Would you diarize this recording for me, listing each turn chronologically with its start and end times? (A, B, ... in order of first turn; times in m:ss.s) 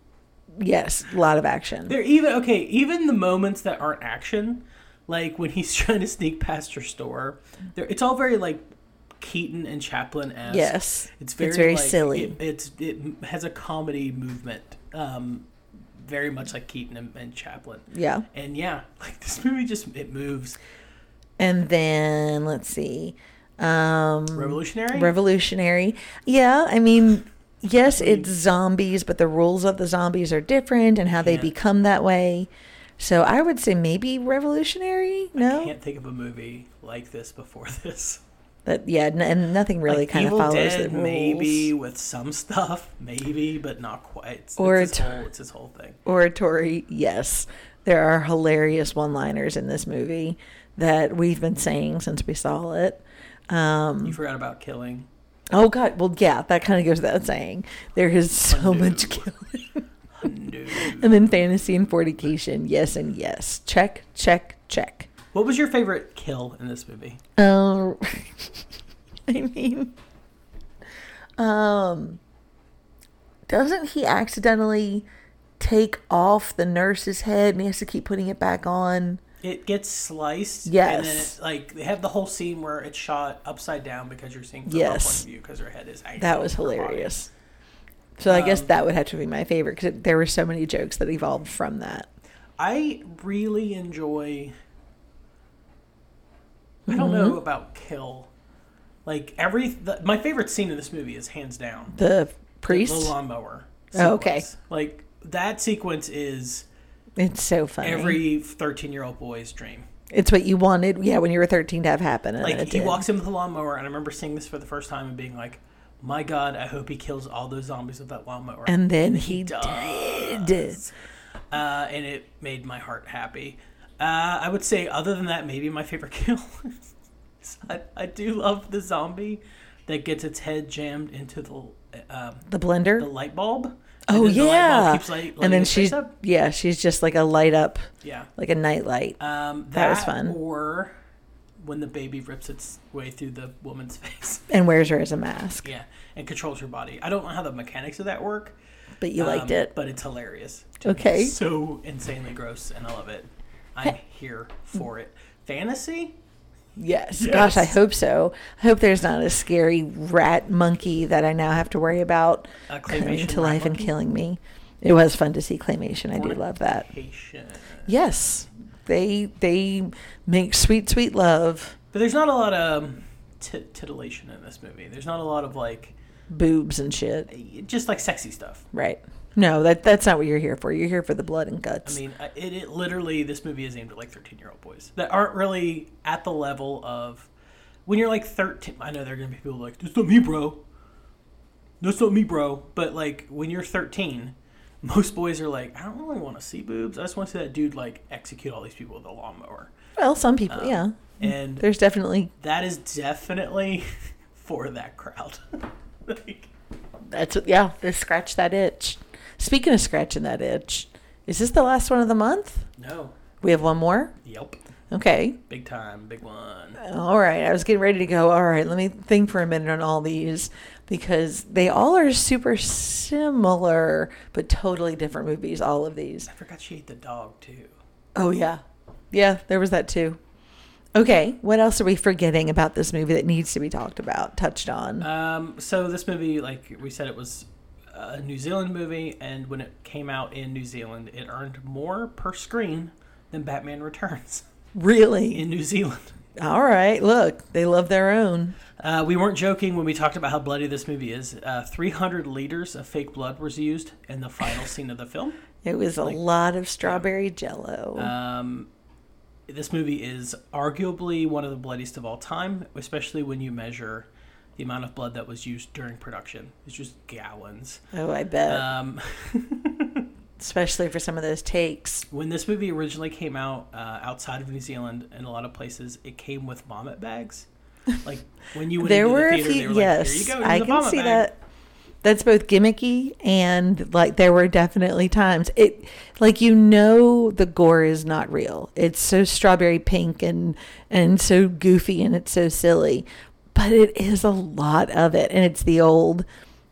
0:00.6-0:01.9 A
0:01.9-0:08.6 B
0:09.2-0:20.6 B
0:10.5-0:12.4 A
0:17.9-0:18.2 A
0:21.4-0:35.7 A
0:24.3-0:25.1 B
0:27.9-0:28.3 B
0:31.2-0:31.5 B
0:35.4-0:38.2 B
0:38.6-0:41.7 A
0:39.9-0:46.0 B
0:44.6-0:45.2 A
0:46.0-0:54.2 A
0:54.0-0:55.1 B
0:55.5-0:59.8 A
0:58.5-0:59.3 B
1:00.2-1:01.3 B
1:00.8-1:05.1 A
1:05.3-1:07.2 B
1:07.4-1:08.5 A
1:09.3-1:09.9 A
1:11.4-1:12.2 A
1:13.5-1:15.0 A
1:15.6-1:19.2 A
1:19.4-1:27.1 B
1:20.6-1:21.3 A
1:24.7-1:25.2 A
1:26.2-1:27.3 A
1:28.2-1:32.1 A
1:28.3-1:28.7 B
1:32.6-1:34.5 B
1:36.9-1:37.4 A
1:36.9-1:38.3 B
1:39.0-1:41.9 B
1:41.9-1:43.1 A
1:42.7-1:46.6 B
1:43.9-1:44.5 A
1:47.2-1:48.2 A
1:47.8-1:49.8 B
1:50.1-1:53.0 A
1:52.4-2:00.9 B
1:58.7-2:00.8 A
2:01.5-2:06.9 B
2:07.4-2:12.5 B
2:12.5-2:13.1 A
2:13.0-2:16.1 B
2:14.1-2:19.2 A
2:18.0-2:18.3 B
2:19.2-2:20.9 B
2:19.7-2:20.4 A
2:21.6-2:24.5 B
2:24.5-2:25.7 A
2:25.6-2:28.6 B
2:29.0-2:29.7 A
2:29.2-2:36.2 B
2:30.8-2:31.3 A
2:36.8-2:46.9 A
2:37.1-2:37.8 B
2:42.7-2:43.9 B
2:46.1-2:47.9 B
2:47.9-2:51.8 A
2:51.9-2:55.9 B
2:56.3-2:57.3 A
2:57.3-2:58.6 B
2:58.7-3:02.0 A
3:01.8-3:07.3 B
3:07.8-3:10.6 B
3:11.8-3:19.7 B
3:20.0-3:22.3 A
3:20.5-3:21.6 B
3:22.4-3:26.5 B
3:27.1-3:32.6 A
3:32.8-3:33.2 B
3:33.4-3:34.2 A
3:34.2-3:34.6 B
3:34.9-3:35.4 A
3:35.5-3:36.8 B
3:36.8-3:46.3 A
3:46.2-3:47.8 B
3:48.2-3:50.2 A
3:50.9-3:55.0 A
3:55.0-4:04.4 B
4:04.7-4:05.4 A
4:05.3-4:06.2 B
4:06.4-4:08.6 A
4:08.8-4:15.4 B
4:15.6-4:18.1 A
4:18.0-4:18.7 B
4:19.5-4:27.8 B
4:27.9-4:28.6 A
4:28.5-4:30.0 B
4:30.4-4:32.0 A
4:32.1-4:37.5 B
4:38.0-4:41.3 B
4:38.8-4:41.4 A
4:42.0-4:56.2 A